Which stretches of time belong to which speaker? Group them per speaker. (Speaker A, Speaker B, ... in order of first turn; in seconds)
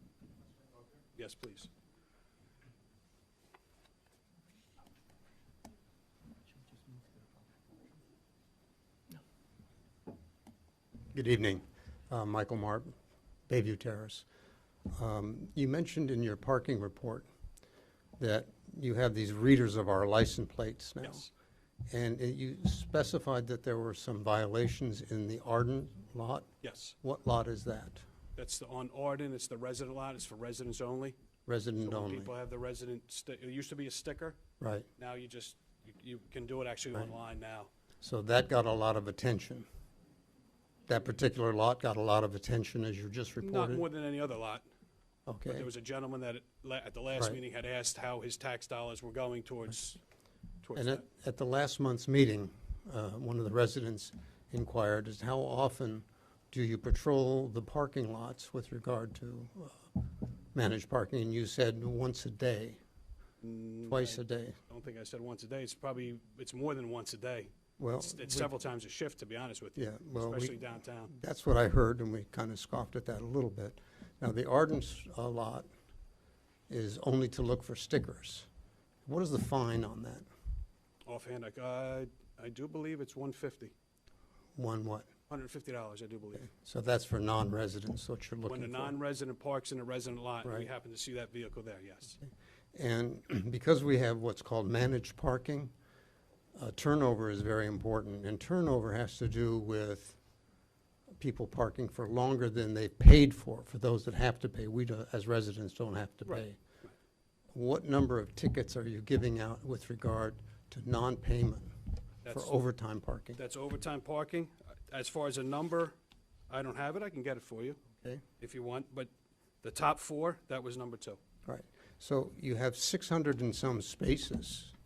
Speaker A: 1.1-1.7, 21.0-21.3, 26.6-26.9, 28.4-31.1, 31.8-34.4, 35.0-37.7, 43.4-44.6, 45.5-50.0, 50.6-51.0, 63.4-71.1, 81.1-83.7, 85.3-86.5, 88.5-92.2, 112.2-112.6, 113.3-115.9, 116.5-117.8, 118.4-119.1, 119.6-121.2
Speaker B: 11.1-12.9, 13.5-14.2, 14.9-17.3, 18.2-21.3, 21.9-26.5, 27.0-28.0, 31.5-32.3, 34.6-34.9, 38.0-39.7, 40.9-43.9, 45.2-45.7, 50.7-60.0, 60.5-62.8, 63.9-64.6, 67.8-68.5, 69.8-75.7, 76.7-78.5, 79.0-80.2, 84.6-85.1, 86.5-88.9, 90.4-90.7, 92.7-95.7, 96.5-100.2, 101.2-106.6, 107.5-111.7, 112.3-113.4, 121.5-124.7